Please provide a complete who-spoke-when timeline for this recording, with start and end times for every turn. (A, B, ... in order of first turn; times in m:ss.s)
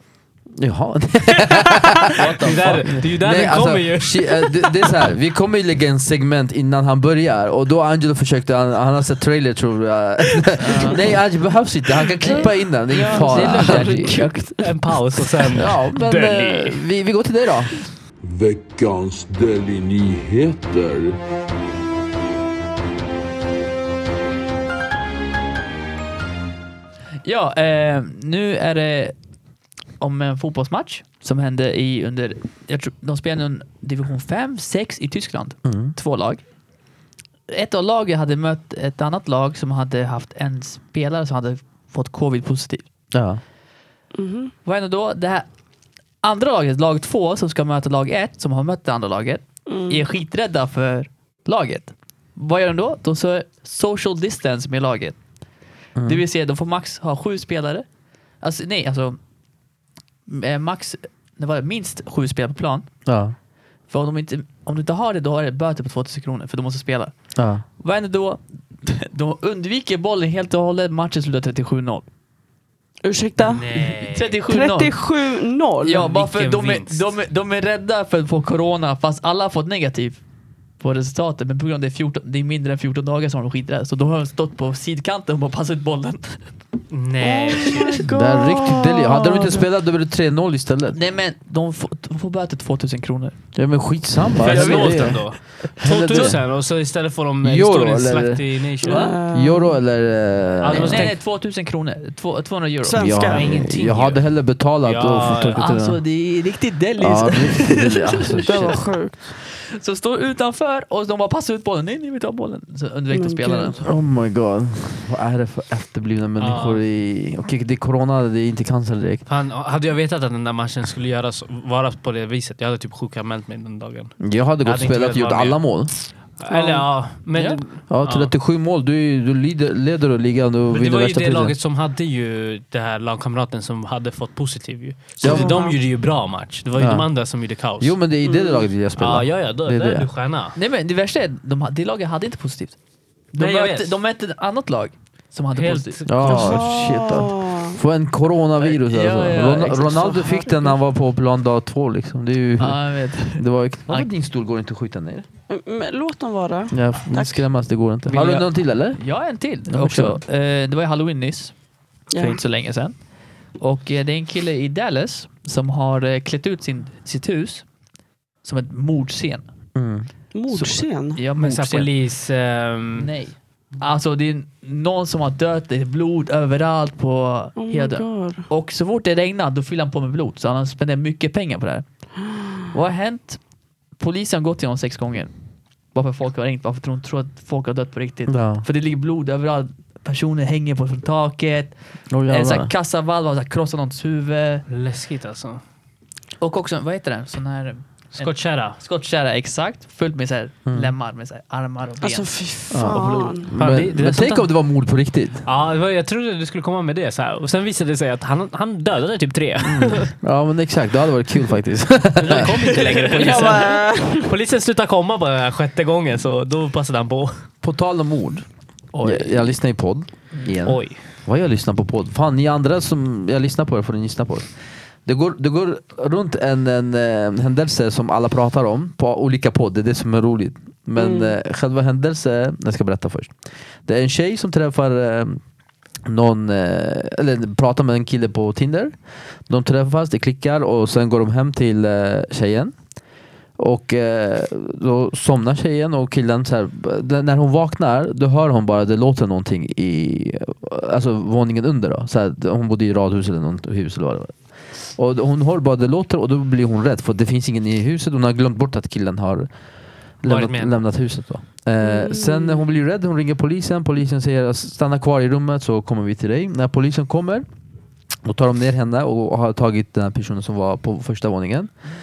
0:00.6-0:02.3 A
0:01.5-0:04.9 B
0:02.2-0:03.0 C
0:02.8-0:14.2 A
0:10.6-0:11.2 C
0:12.2-0:14.7 C
0:12.3-0:14.7 D
0:14.6-0:16.8 B
0:15.5-0:17.8 A
0:18.2-0:21.2 E
0:27.2-0:29.2 C
0:30.0-0:36.4 C
0:35.6-0:36.0 A
0:37.5-0:42.9 C
0:43.1-0:43.4 A
0:44.1-0:44.5 D
0:44.6-0:45.5 C
0:46.2-0:55.2 C
0:49.7-0:50.1 D
0:56.0-0:56.2 A
0:56.1-0:57.9 C
0:58.4-0:59.2 C
1:00.3-1:02.9 C
1:03.1-1:03.4 A
1:03.9-1:07.2 C
1:07.4-1:07.6 A
1:07.8-1:12.1 C
1:13.0-1:13.7 D
1:13.4-1:14.4 B
1:13.7-1:15.0 C
1:14.5-1:16.1 D
1:15.8-1:20.2 C
1:16.0-1:17.1 B
1:20.8-1:26.5 C
1:26.9-1:28.1 B
1:27.2-1:29.7 D
1:28.0-1:31.0 A
1:30.9-1:33.4 C
1:33.6-1:36.6 A
1:34.4-1:39.2 B
1:34.4-1:35.3 C
1:35.8-1:36.4 C
1:37.4-1:38.5 A
1:38.8-1:39.8 D
1:38.9-1:39.2 C
1:39.3-1:41.1 A
1:40.6-1:41.2 B
1:40.7-1:43.2 C
1:42.8-1:43.5 D
1:43.0-1:46.0 A
1:43.3-1:45.6 B
1:45.6-1:53.9 C
1:47.0-1:48.8 A
1:48.3-1:49.3 D
1:53.1-1:53.8 D
1:53.8-1:59.2 A
1:56.4-1:56.8 B
1:59.3-2:05.8 B
2:04.2-2:05.9 A
2:06.4-2:08.3 B
2:06.5-2:06.8 D
2:07.4-2:07.6 C
2:07.9-2:11.5 A
2:10.7-2:18.0 B
2:15.2-2:15.6 A
2:15.2-2:15.8 D
2:16.8-2:17.1 A
2:17.8-2:20.1 A
2:18.2-2:18.6 D
2:19.0-2:20.6 B
2:20.6-2:22.8 C
2:23.3-2:26.3 C
2:23.4-2:24.0 B
2:25.6-2:26.6 B
2:26.1-2:35.3 A
2:26.2-2:27.8 D
2:28.6-2:30.4 C
2:30.3-2:30.7 D
2:32.6-2:34.1 C
2:35.5-2:37.4 D
2:36.7-2:40.2 A
2:38.1-2:41.6 C
2:42.1-2:42.4 D
2:42.1-2:43.0 C
2:43.6-2:47.7 C
2:48.4-2:49.5 C
2:49.8-2:50.1 A
2:50.3-2:51.2 D
2:50.5-2:51.9 C
2:51.4-2:53.1 B
2:53.0-3:03.4 C
2:57.6-2:58.5 D
3:04.0-3:05.3 C
3:05.9-3:14.6 C
3:08.3-3:08.7 A
3:12.1-3:12.7 A
3:14.7-3:15.6 B
3:16.4-3:22.3 C
3:18.2-3:18.8 B
3:20.7-3:20.9 A
3:22.0-3:23.5 D
3:22.7-3:25.4 A
3:22.9-3:23.3 C
3:23.6-3:24.5 B
3:25.5-3:30.1 B
3:29.6-3:33.1 A
3:32.2-3:37.3 B
3:33.1-3:33.6 C
3:33.1-3:34.3 D
3:37.6-3:38.4 A
3:38.9-3:39.6 C
3:39.0-3:44.5 A
3:40.6-3:41.0 B
3:45.1-3:53.3 A
3:51.0-3:51.4 D
3:53.8-3:55.4 A
3:56.1-3:59.0 A
3:59.5-4:02.8 A
4:03.6-4:14.4 A
4:15.0-4:19.5 A
4:20.2-4:27.5 A
4:20.2-4:20.8 B
4:21.8-4:22.6 D
4:28.2-4:31.7 A